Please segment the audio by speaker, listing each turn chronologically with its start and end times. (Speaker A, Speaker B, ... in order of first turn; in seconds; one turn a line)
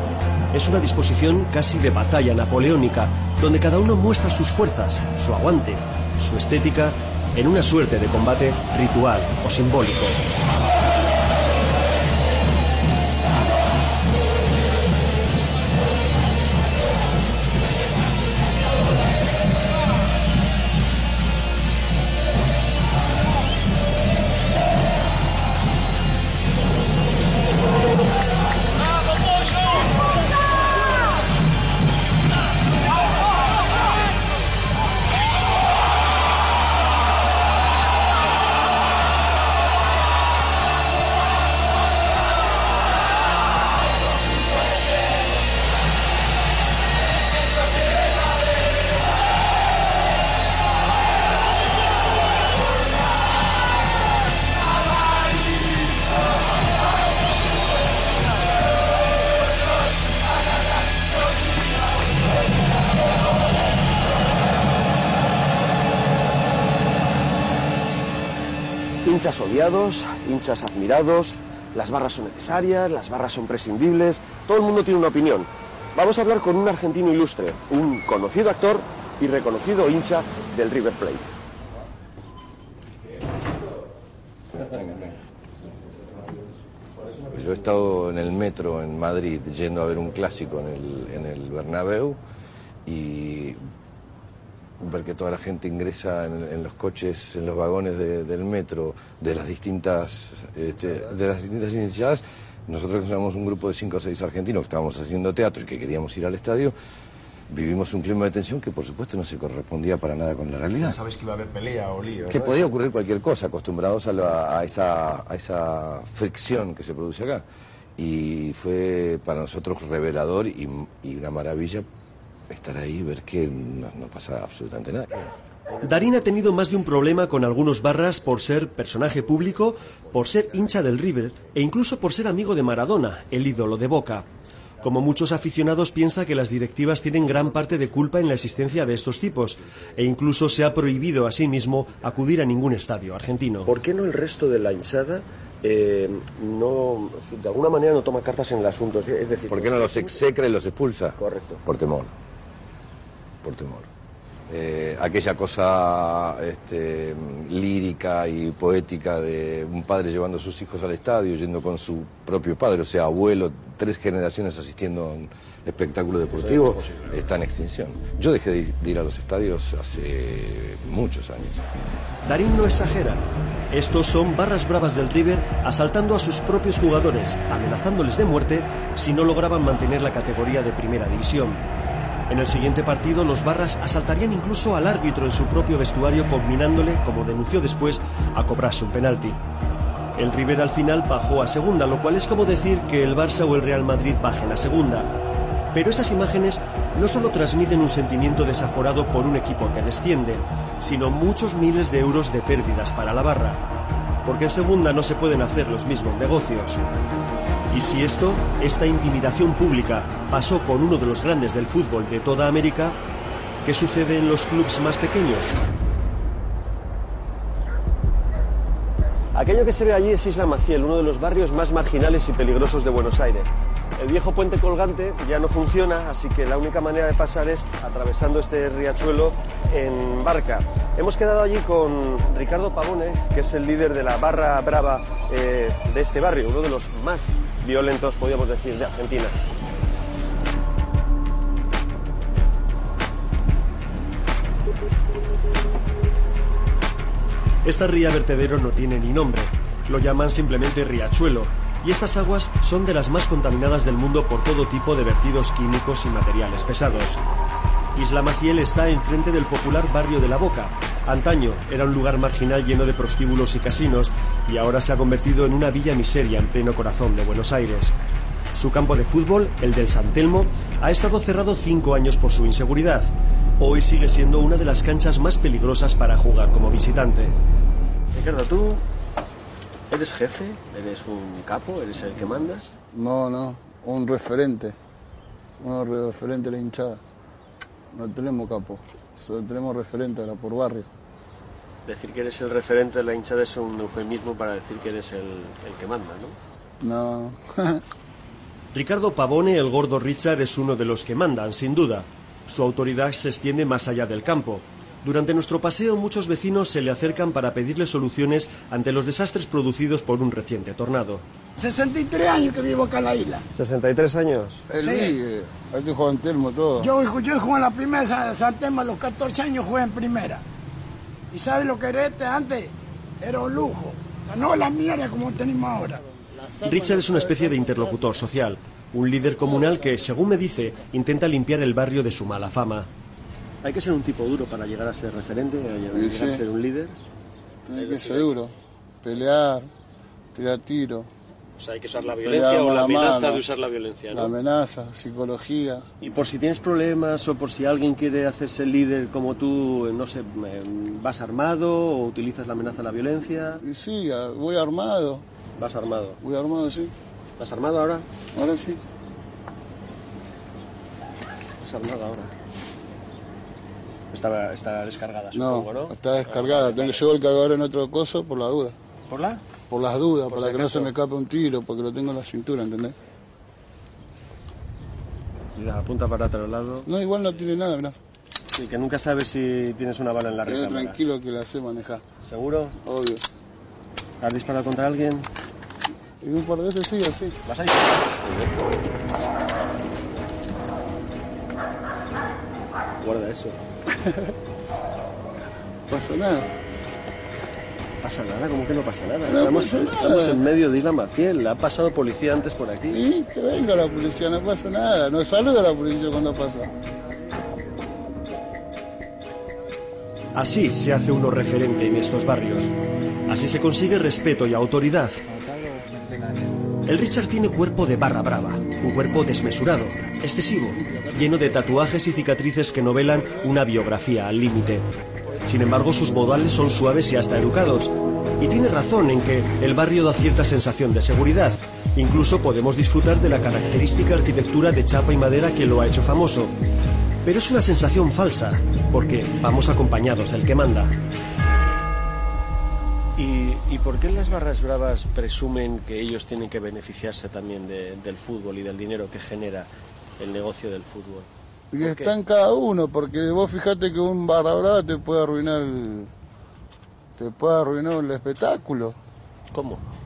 Speaker A: 0.5-10.2
Speaker B: 69.0-81.3
Speaker C: 87.3-92.2
Speaker C: 92.8-93.6
Speaker C: 94.8-106.7
Speaker C: 107.5-111.0
Speaker B: 110.8-112.7
Speaker C: 112.3-117.4
Speaker C: 118.0-121.8
Speaker C: 122.5-125.3
Speaker A: 125.8-134.2
Speaker A: 134.8-143.7
Speaker B: 143.7-150.2
Speaker C: 149.5-152.1
Speaker B: 151.2-151.6
Speaker C: 153.4-153.9
Speaker C: 154.5-171.6
Speaker B: 166.3-167.0
Speaker A: 172.2-181.6
Speaker A: 182.3-189.4
Speaker A: 190.2-195.1
Speaker A: 195.7-203.6
Speaker A: 204.2-206.8
Speaker A: 207.7-213.0
Speaker A: 213.6-215.6
Speaker B: 219.3-239.3
Speaker A: 247.6-257.2
Speaker A: 257.9-267.9
Speaker A: 268.5-277.3
Speaker B: 278.1-278.8
Speaker B: 279.9-282.7
Speaker D: 282.9-284.7
Speaker D: 285.6-287.0
Speaker D: 287.9-290.9
Speaker B: 291.9-296.4
Speaker D: 296.8-297.8
Speaker A: 298.7-311.2
Speaker E: 311.6-313.4
Speaker B: 313.5-314.6
Speaker D: 314.7-316.9
Speaker E: 314.8-315.2
Speaker E: 316.8-320.4
Speaker E: 321.3-326.0
Speaker D: 326.4-327.3
Speaker A: 326.6-332.9
Speaker B: 333.6-336.9
Speaker D: 335.9-336.4
Speaker D: 337.6-338.5
Speaker B: 337.7-338.3
Speaker D: 339.0-339.7
Speaker D: 340.3-341.1
Speaker B: 341.6-344.3
Speaker D: 342.2-343.4
Speaker D: 344.1-345.9
Speaker B: 346.0-353.6
Speaker D: 353.6-355.2
Speaker B: 355.6-356.2
Speaker D: 356.2-356.9
Speaker B: 357.4-358.0
Speaker D: 358.4-358.8
Speaker B: 361.6-362.3
Speaker B: 364.1-367.0
Speaker D: 365.3-368.7
Speaker B: 369.1-369.4
Speaker D: 369.7-372.9
Speaker B: 370.3-370.9
Speaker B: 375.6-376.9
Speaker D: 376.8-377.9
Speaker B: 378.5-381.0
Speaker D: 380.4-382.0
Speaker B: 382.2-382.7
Speaker D: 382.8-383.2
Speaker B: 384.2-385.3
Speaker D: 386.2-387.3
Speaker B: 387.4-388.3
Speaker B: 393.0-393.6
Speaker D: 395.9-396.5
Speaker B: 398.0-403.0
Speaker D: 399.2-400.4
Speaker D: 402.9-406.7
Speaker A: 410.3-412.7
Speaker A: 413.3-415.2
Speaker A: 416.9-424.9
Speaker A: 425.4-436.5
Speaker A: 437.2-440.9
Speaker B: 443.2-449.7
Speaker B: 450.2-451.3
Speaker D: 451.7-456.1
Speaker B: 451.8-452.1
Speaker D: 457.2-458.9
Speaker B: 459.5-459.8